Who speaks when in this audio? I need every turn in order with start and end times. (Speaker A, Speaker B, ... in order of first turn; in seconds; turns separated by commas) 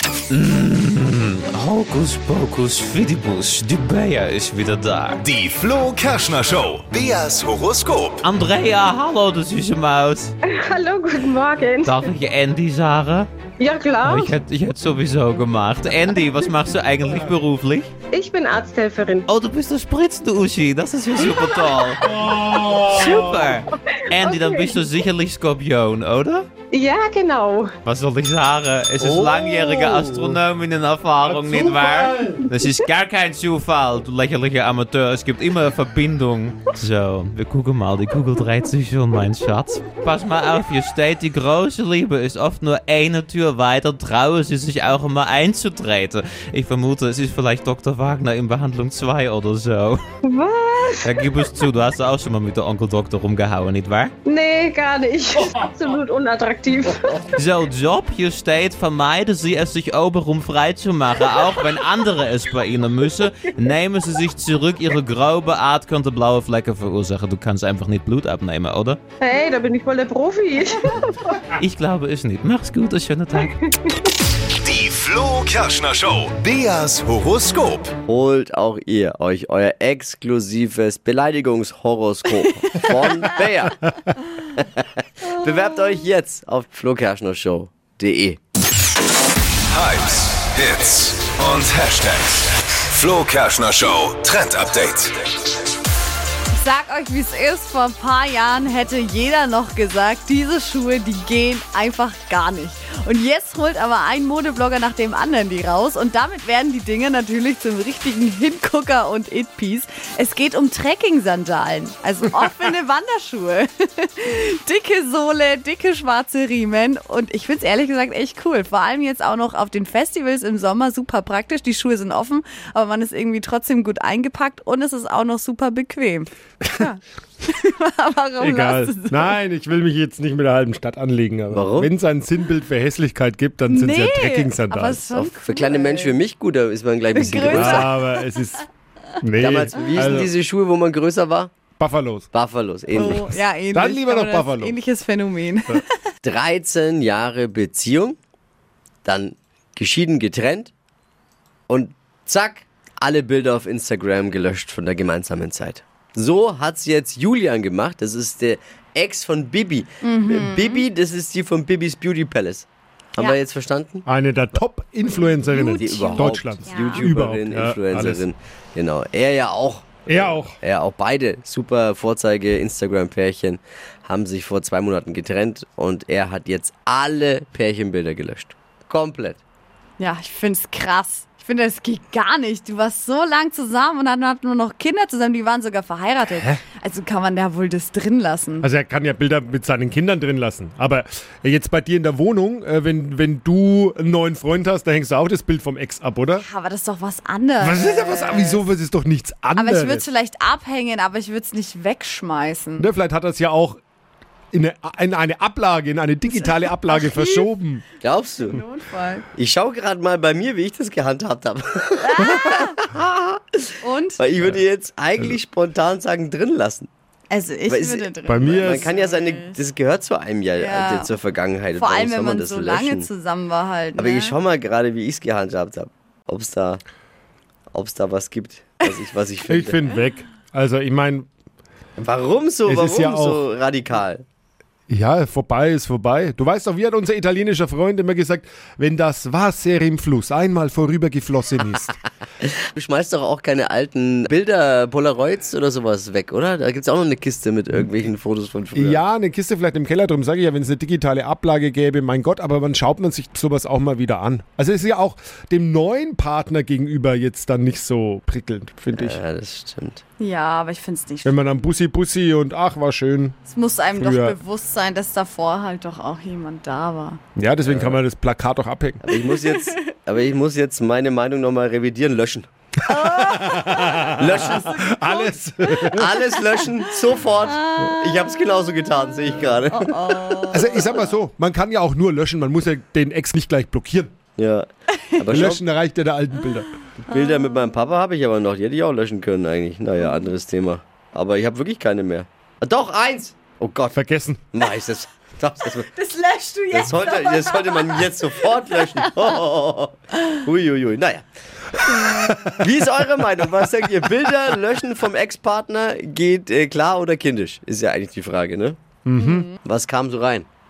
Speaker A: 0.3-5.3, Speaker B: 5.2-8.2, Speaker A: 8.2-10.3, Speaker C: 10.4-12.0, Speaker A: 11.8-13.3, Speaker C: 13.6-14.3, Speaker A: 14.0-17.9, Speaker C: 18.1-19.2, Speaker A: 19.3-22.0, Speaker D: 22.0-23.4, Speaker A: 22.9-26.5, Speaker C: 24.2-24.9, Speaker C: 26.7-27.7, Speaker A: 27.9-50.0, Speaker E: 29.0-29.9, Speaker D: 30.0-30.3, Speaker D: 31.2-32.5, Speaker C: 50.2-51.1, Speaker A: 51.0-54.1, Speaker C: 54.3-57.2, Speaker A: 57.4-69.0, Speaker C: 69.2-70.9, Speaker A: 71.6-73.6, Speaker B: 74.6-78.0, Speaker E: 78.1-83.8, Speaker F: 82.7-83.0, Speaker E: 84.6-88.4, Speaker B: 89.7-95.2, Speaker F: 96.5-129.3, Speaker D: 128.4-135.2, Speaker E: 131.5-131.9, Speaker F: 133.7-136.2, Speaker E: 135.2-138.0, Speaker F: 137.1-138.3, Speaker D: 137.5-138.6, Speaker D: 139.2-140.3, Speaker E: 139.4-141.5, Speaker D: 141.8-142.3, Speaker E: 142.3-143.3, Speaker F: 142.9-145.9, Speaker D: 143.8-144.8, Speaker E: 146.2-148.2, Speaker E: 149.1-150.7, Speaker E: 151.7-164.1, Speaker F: 160.0-160.8, Speaker D: 164.1-168.2, Speaker F: 165.3-167.1, Speaker E: 165.7-179.4, Speaker D: 170.1-170.6, Speaker F: 180.0-188.7, Speaker D: 188.6-196.4, Speaker F: 196.4-198.6, Speaker D: 197.6-200.0, Speaker F: 199.6-202.9, Speaker D: 202.8-203.8, Speaker D: 204.5-207.8, Speaker F: 206.3-207.5, Speaker E: 208.0-208.6, Speaker F: 208.4-209.2, Speaker E: 209.3-216.9, Speaker F: 212.0-212.7, Speaker F: 213.8-214.2, Speaker F: 217.3-219.6, Speaker E: 217.7-223.1, Speaker D: 218.3-218.9, Speaker F: 220.6-221.2, Speaker F: 221.7-224.3, Speaker E: 224.0-226.8, Speaker E: 227.7-229.8, Speaker D: 229.5-231.3, Speaker E: 232.0-234.2, Speaker D: 232.7-233.4, Speaker D: 234.9-241.9, Speaker E: 242.4-249.0, Speaker D: 248.8-259.2, Speaker E: 258.9-260.0, Speaker F: 260.2-261.5, Speaker D: 261.2-263.4, Speaker F: 263.5-267.2, Speaker D: 264.0-264.4, Speaker D: 267.4-269.0, Speaker E: 267.6-268.0, Speaker E: 269.0-272.5, Speaker F: 269.2-269.8, Speaker F: 272.9-276.3, Speaker D: 273.3-276.1, Speaker E: 274.2-274.8, Speaker E: 275.9-280.5, Speaker F: 277.5-278.1, Speaker F: 279.7-281.1, Speaker D: 280.5-284.1, Speaker E: 284.4-285.6, Speaker D: 285.3-286.7, Speaker E: 287.0-294.0, Speaker F: 287.1-287.7, Speaker D: 293.9-294.4, Speaker E: 294.5-295.9, Speaker F: 295.9-298.5, Speaker E: 296.7-308.8, Speaker D: 309.1-309.5, Speaker F: 309.2-309.5, Speaker E: 309.6-310.5